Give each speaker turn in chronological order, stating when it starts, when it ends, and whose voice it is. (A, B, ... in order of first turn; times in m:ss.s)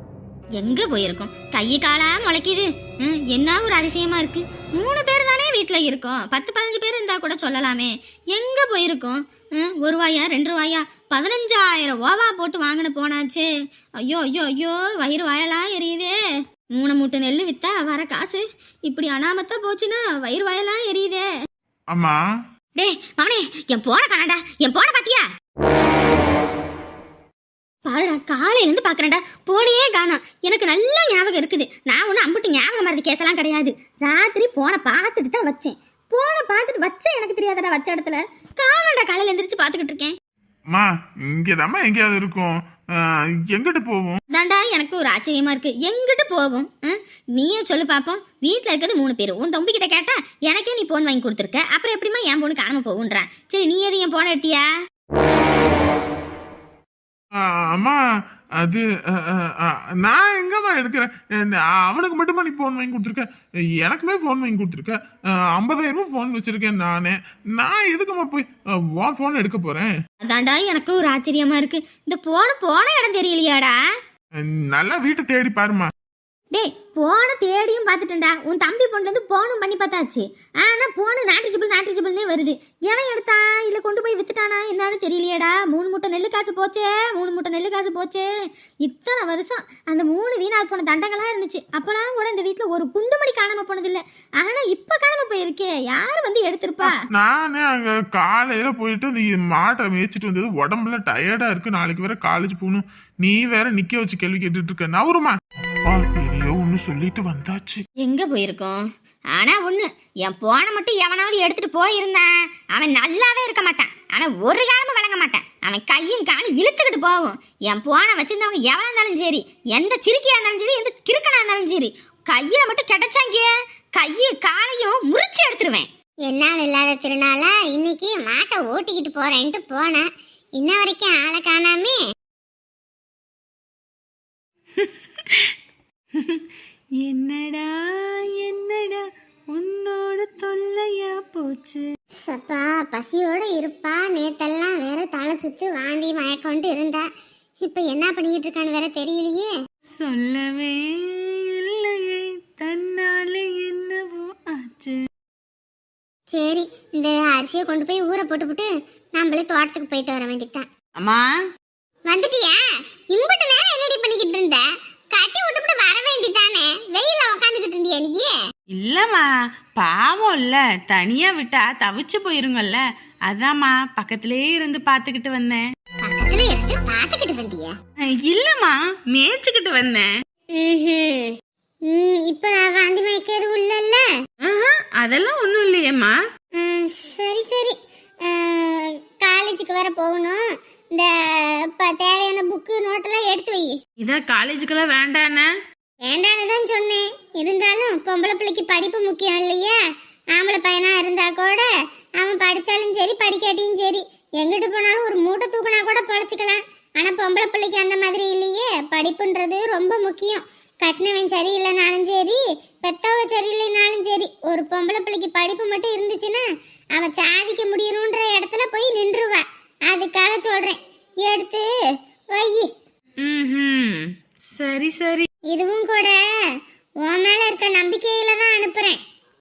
0:00.6-0:16.2 A
0:16.7-0:21.3 A
0:21.9-0:22.2 B
0:22.8-0:25.3 A
0:27.8-0:40.2 A
0:40.7-0:44.2 B
0:44.3-0:54.7 A
0:57.4-0:58.0 B
0:58.6-1:10.0 B
1:10.2-1:13.9 A
1:14.4-1:15.9 B
1:16.5-1:37.0 A
1:36.8-1:47.8 B
1:48.0-2:05.9 A
2:06.2-2:10.0 C
2:10.6-2:12.0 C
2:14.8-2:15.5 D
2:16.2-2:16.4 D
2:17.0-2:21.9 D
2:22.2-2:27.0 C
2:27.6-2:29.5 C
2:30.0-2:35.0 D
2:36.3-2:40.7 C
2:41.0-2:41.3 D
2:42.1-2:42.6 C
2:43.1-2:48.3 C
2:48.7-2:55.6 D
2:56.1-2:57.7 C
2:56.3-2:56.8 A
2:58.1-3:00.1 D
3:00.5-3:01.3 C
3:01.9-3:04.1 C
3:04.4-3:06.1 D
3:06.6-3:10.4 C
3:10.9-3:13.8 C
3:14.0-3:15.5 D
3:16.0-3:19.8 C
3:20.4-3:21.7 C
3:22.2-3:36.4 C
3:37.0-3:41.7 C
3:42.3-3:42.7 C
3:43.2-3:45.3 D
3:45.5-3:46.2 C
3:47.0-3:49.0 C